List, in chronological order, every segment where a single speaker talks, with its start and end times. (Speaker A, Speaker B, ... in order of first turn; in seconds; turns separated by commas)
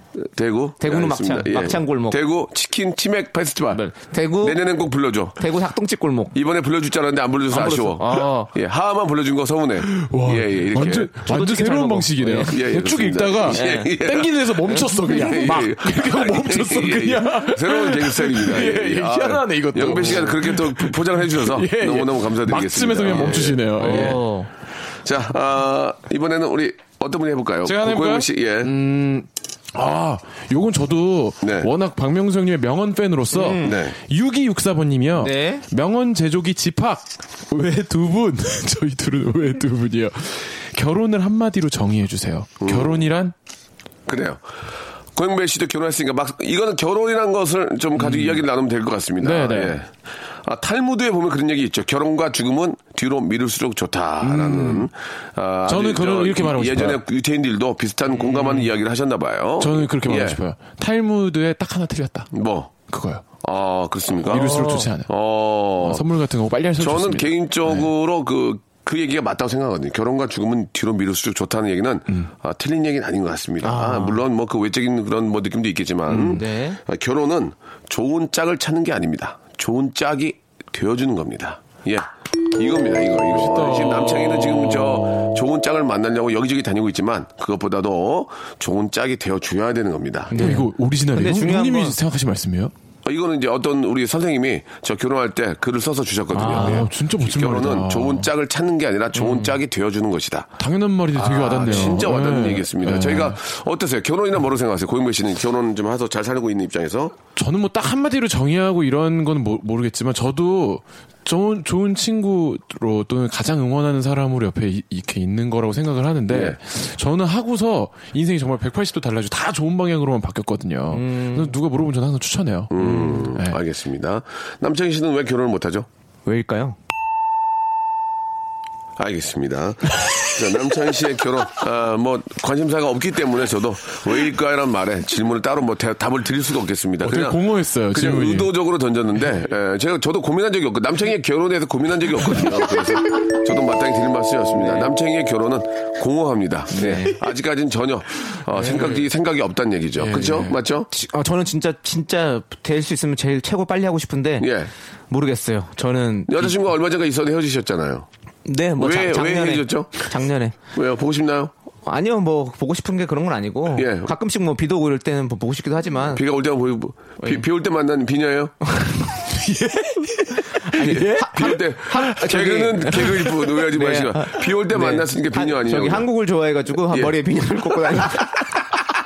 Speaker A: 0.2-3.8, Speaker B: 0.8-2.2, Speaker B: 3.7-4.6, Speaker A: 4.4-5.4, Speaker B: 5.4-6.3, Speaker A: 6.3-11.1, Speaker B: 7.5-8.5, Speaker C: 9.8-24.2, Speaker B: 11.2-12.6, Speaker A: 12.4-24.2, Speaker B: 13.5-13.9, Speaker B: 23.8-24.5, Speaker A: 25.0-28.7, Speaker C: 27.6-43.3, Speaker A: 31.4-31.7, Speaker B: 33.3-33.8, Speaker A: 33.6-34.0, Speaker B: 35.2-35.6, Speaker A: 42.6-43.0, Speaker A: 44.1-44.4, Speaker A: 45.1-49.9, Speaker C: 48.0-48.4, Speaker C: 49.2-49.8, Speaker A: 50.4-60.4, Speaker C: 54.2-54.9, Speaker C: 55.7-57.0, Speaker C: 59.6-62.3, Speaker A: 62.3-62.7, Speaker C: 62.9-63.2, Speaker A: 63.4-66.0, Speaker C: 64.3-65.1, Speaker B: 64.3-64.9, Speaker C: 65.8-67.9, Speaker A: 66.8-90.5, Speaker B: 73.6-74.2, Speaker C: 76.1-76.4, Speaker B: 76.3-76.8, Speaker C: 83.3-85.4, Speaker B: 90.3-92.0, Speaker C: 90.3-92.7, Speaker A: 93.0-100.5, Speaker B: 96.3-96.9, Speaker C: 96.4-98.3, Speaker B: 99.1-99.5, Speaker C: 100.6-103.4, Speaker B: 101.2-102.0, Speaker A: 101.2-107.2, Speaker C: 107.3-123.6, Speaker A: 116.3-116.6, Speaker B: 120.9-121.6, Speaker A: 122.7-125.9, Speaker B: 126.2-126.8, Speaker A: 129.0-150.9, Speaker C: 137.0-138.5, Speaker B: 144.5-144.9, Speaker C: 146.7-147.1, Speaker B: 146.7-147.2, Speaker C: 148.5-149.0, Speaker C: 150.0-150.6, Speaker B: 150.9-154.5, Speaker A: 154.4-154.7, Speaker B: 155.1-156.6, Speaker A: 156.3-158.1, Speaker B: 158.4-160.6, Speaker A: 158.8-160.1, Speaker A: 160.7-161.5, Speaker B: 161.8-166.2, Speaker A: 163.7-164.1, Speaker A: 166.1-168.5, Speaker C: 169.3-171.6, Speaker B: 170.6-178.4, Speaker A: 170.7-176.1, Speaker C: 172.9-173.3, Speaker A: 176.9-177.2